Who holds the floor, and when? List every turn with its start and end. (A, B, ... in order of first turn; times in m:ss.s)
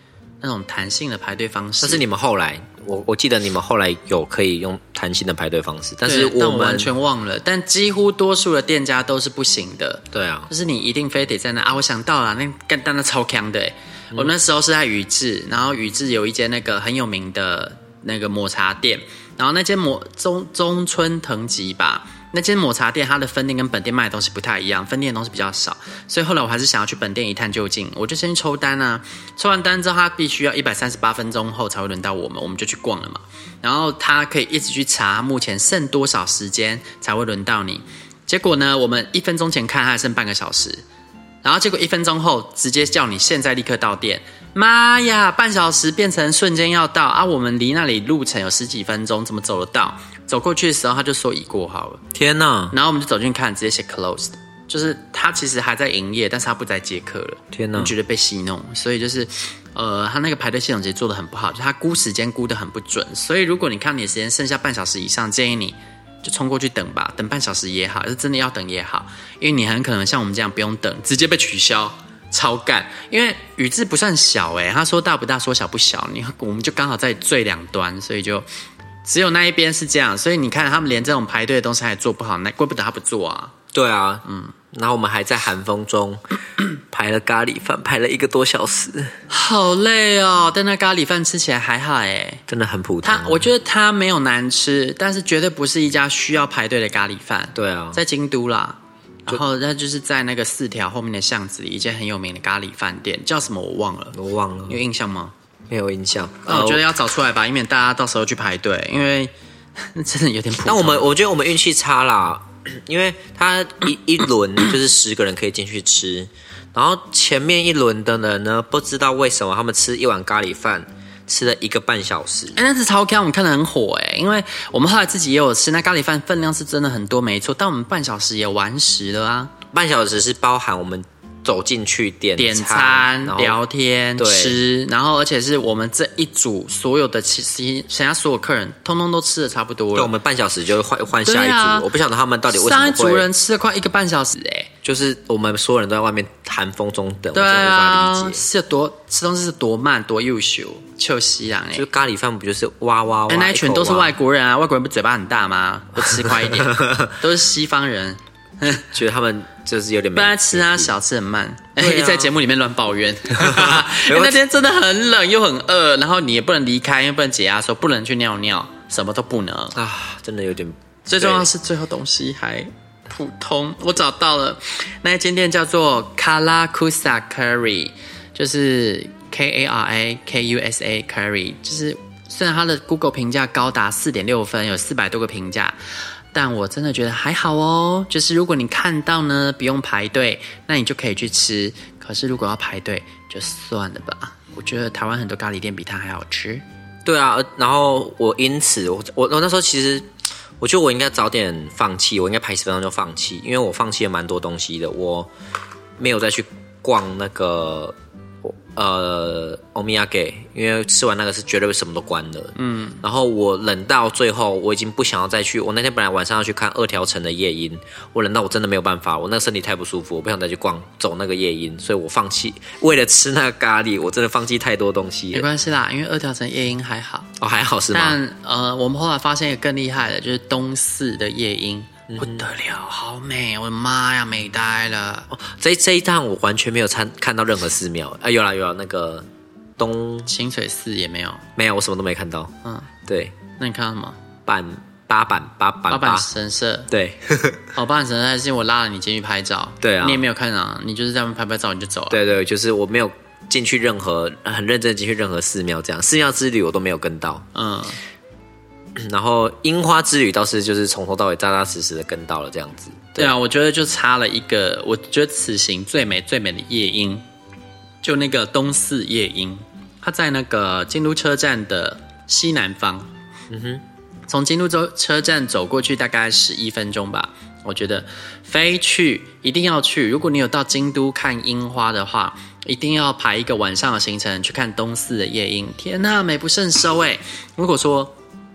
0:00.4-0:02.0 A
0:01.8-0:06.9 B
0:06.0-0:40.8 A
0:10.1-0:10.5 B
0:41.4-0:52.0 A
0:52.1-0:52.7 B
0:52.7-1:18.4 A
0:57.5-0:57.9 B
1:19.0-1:23.5 A
1:23.7-1:26.2 B
1:24.3-1:24.5 A
1:26.9-1:29.2 B
1:29.3-1:32.4 A
1:32.5-1:33.5 B
1:33.0-1:44.2 A
1:37.5-1:38.0 B
1:44.1-1:44.8 B
1:44.7-1:45.3 A
1:45.7-1:46.8 B
1:46.4-1:49.3 A
1:49.8-1:51.0 A
1:50.6-2:02.6 B
2:02.5-2:09.5 A
2:09.7-2:13.6 B
2:12.4-2:20.1 A
2:14.2-2:14.6 B
2:19.9-2:23.3 B
2:21.2-2:21.9 A
2:22.5-2:24.7 A
2:24.8-2:28.4 B
2:27.3-2:31.9 A
2:31.7-2:34.1 B
2:33.3-2:38.9 A
2:36.1-2:37.1 B
2:38.6-2:40.9 B
2:40.1-2:49.8 A
2:41.8-2:42.3 B
2:43.4-2:44.4 B
2:49.7-2:51.5 B
2:51.1-3:05.7 A
3:06.3-3:16.6 A
3:17.0-3:20.1 B
3:20.6-3:25.3 B
3:26.0-3:45.4 B
3:32.6-3:33.0 A
3:45.3-3:47.3 A
3:47.4-3:48.2 B
3:47.9-3:55.3 A
3:52.1-3:52.4 B
3:55.3-4:00.3 B
4:00.3-4:01.4 A
4:01.6-4:02.5 B
4:03.0-4:03.4 B
4:03.6-4:04.2 A
4:04.4-4:06.2 B
4:05.9-4:06.9 A
4:06.9-4:07.6 B
4:07.7-4:12.2 A
4:09.8-4:10.2 B
4:12.1-4:17.4 B
4:17.5-4:18.0 A
4:19.0-4:23.3 B
4:23.2-4:27.2 A
4:28.0-4:33.1 A
4:33.5-4:33.8 B
4:34.3-4:48.1 A